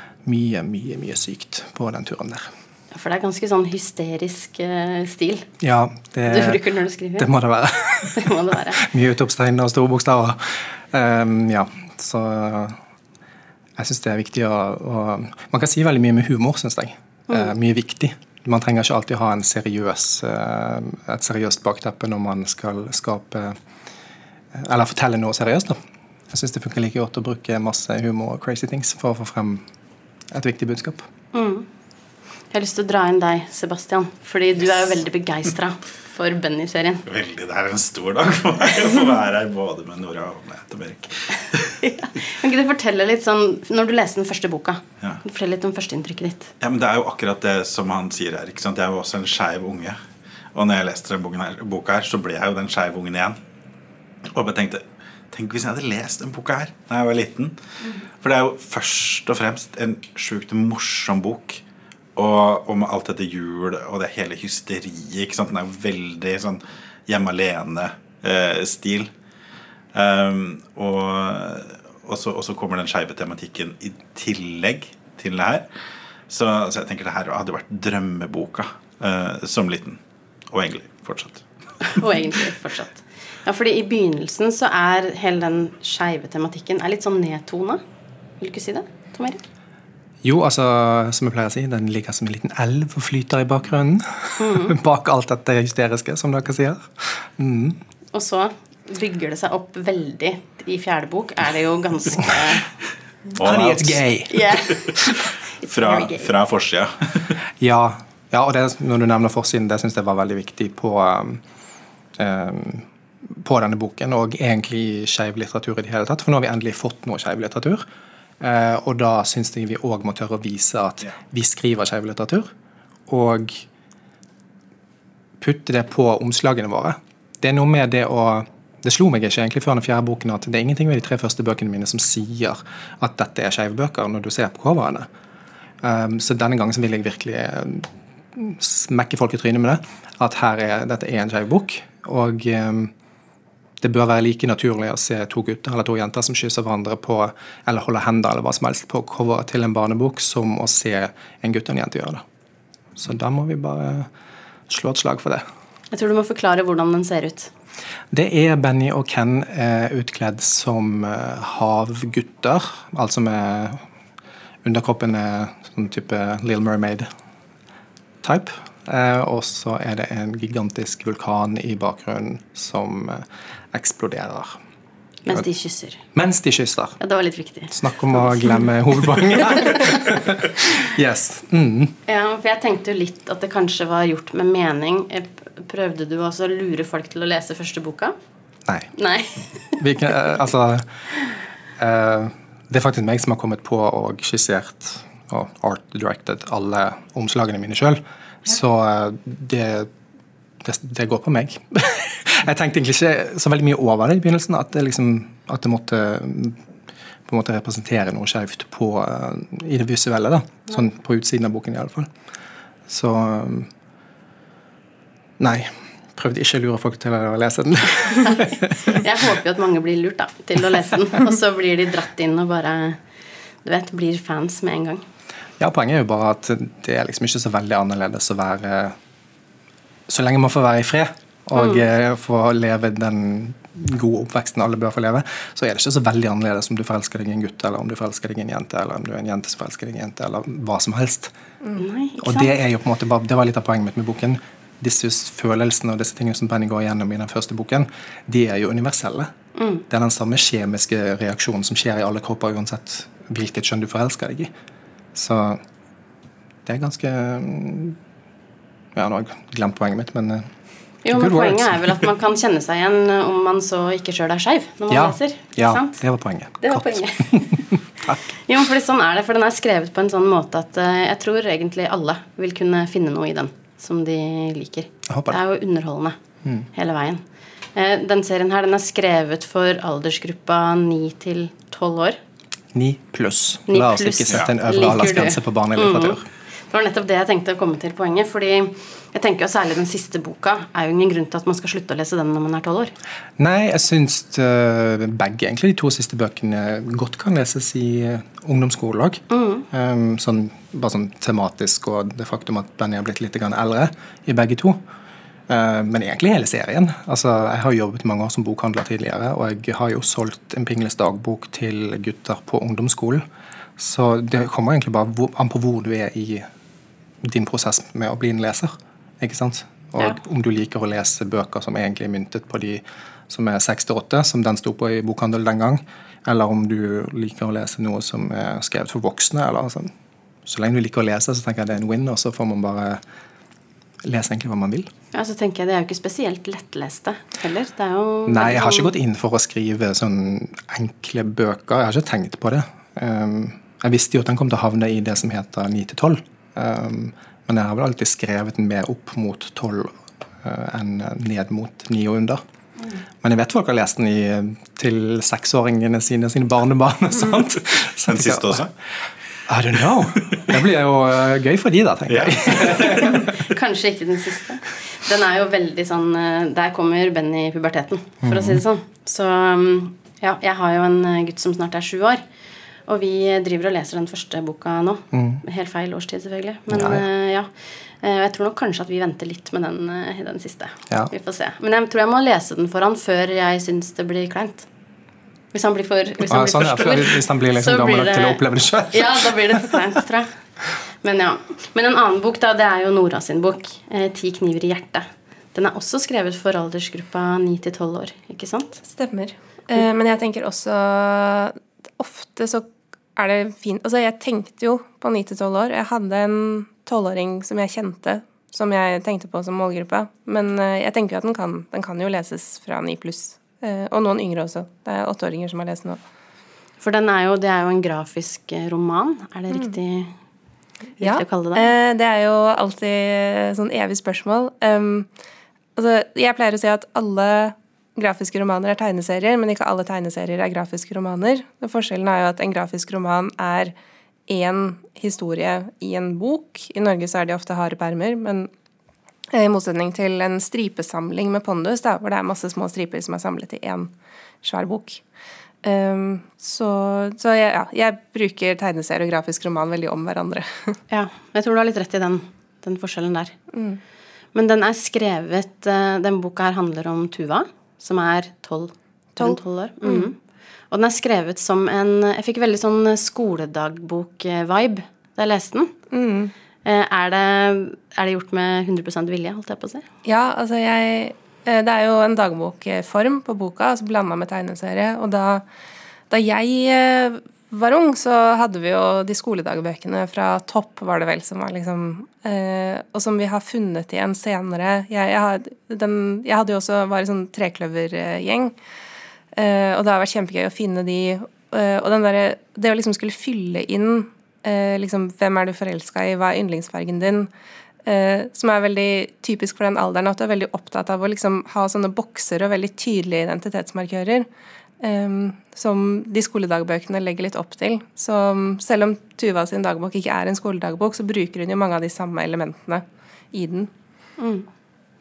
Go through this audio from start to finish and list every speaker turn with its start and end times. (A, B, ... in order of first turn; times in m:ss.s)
0:00.2-0:02.5 A
0:02.9-0:05.5 B
0:05.6-0:06.6 A
0:06.3-0:07.3 B
0:07.2-0:12.8 A
0:08.2-0:08.8 B
0:13.8-0:23.6 A
0:24.5-0:25.8 A
0:26.3-0:29.6 A
0:30.3-0:31.1 A
0:31.3-0:31.7 B
0:32.5-0:37.0 B
0:37.0-0:41.9 C
0:41.8-0:46.5 B
0:46.6-0:50.0 C
0:50.5-0:53.4 C
0:54.3-0:57.6 C
0:58.2-1:01.6 C
1:02.2-1:09.1 C
1:09.9-1:15.7 C
1:16.3-1:20.0 C
1:20.5-1:21.4 C
1:21.8-1:27.8 B
1:28.4-1:29.4 B
1:30.2-1:37.8 A
1:34.4-1:34.8 B
1:38.1-1:42.6 B
1:43.4-1:44.0 C
1:43.4-1:44.5 A
1:44.3-1:46.3 B
1:45.7-1:47.4 C
1:47.6-1:51.4 A
1:52.2-1:57.8 A
1:58.4-2:02.5 A
2:03.1-2:03.6 A
2:05.4-2:15.1 A
2:15.8-2:22.9 A
2:23.8-2:32.2 A
2:33.0-2:34.1 A
2:34.7-2:35.4 A
2:35.9-2:37.5 B
2:38.1-2:43.8 A
2:44.6-2:47.1 A
2:48.2-2:54.6 A
2:55.2-2:56.0 B
2:56.1-2:57.0 A
2:57.0-2:58.6 B
2:57.7-3:01.9 A
2:59.3-3:00.0 B
3:02.1-3:08.1 B
3:08.9-3:09.8 B
3:09.8-3:10.8 A
3:11.8-3:19.9 A
3:20.6-3:26.6 A
3:27.2-3:32.1 A
3:32.9-3:33.7 A
3:35.4-3:39.0 A
3:38.2-3:43.0 B
3:43.6-3:45.0 B
3:45.6-3:48.9 A
3:50.1-4:01.3 A
4:01.7-4:02.5 B
4:02.2-4:09.3 A
4:09.6-4:09.8 B
4:09.9-4:14.5 A
4:15.1-4:15.6 A
4:16.6-4:18.0 A
4:18.9-4:20.5 A
4:21.0-4:26.0 B
4:21.1-4:22.1 A
4:24.9-4:28.2 A
4:26.6-4:27.6 B
4:28.3-4:36.2 B
4:35.1-4:35.4 A
4:36.7-4:37.2 B
4:37.7-4:42.2 B
4:42.7-4:46.2 A
4:43.7-4:52.9 B
4:53.4-5:04.8 A
4:59.3-4:59.6 B
5:05.5-5:13.2 A
5:13.8-5:16.4 A
5:17.2-5:29.9 A
5:30.4-5:33.0 A
5:34.0-5:34.9 A
5:35.1-5:38.9 B
5:38.2-5:52.4 A
5:53.2-5:58.7 A
5:58.0-5:58.7 C
5:59.5-6:03.3 A
6:00.1-6:00.4 C
6:02.1-6:03.2 C
6:02.6-6:12.2 B
6:08.2-6:08.6 A
6:12.8-6:24.7 B
6:15.1-6:15.4 A
6:16.7-6:17.0 A
6:25.5-6:30.3 B
6:26.3-6:29.8 A
6:31.0-6:38.8 B
6:38.8-6:56.0 D
6:56.8-7:00.1 B
7:01.0-7:01.7 B
7:01.0-7:05.1 D
7:05.8-7:13.7 D
7:14.3-7:18.5 D
7:19.3-7:23.9 D
7:24.4-7:25.0 D
7:25.6-7:30.8 D
7:30.9-7:33.3 B
7:33.5-7:33.8 D
7:34.3-7:40.2 B
7:39.2-7:40.1 D
7:40.7-7:45.7 B
7:45.9-7:46.3 D
7:46.6-7:49.8 B
7:50.0-7:55.4 D
7:56.1-8:08.5 D
8:09.3-8:17.3 D
8:17.8-8:24.3 D
8:24.8-8:33.7 D
8:34.2-8:34.5 B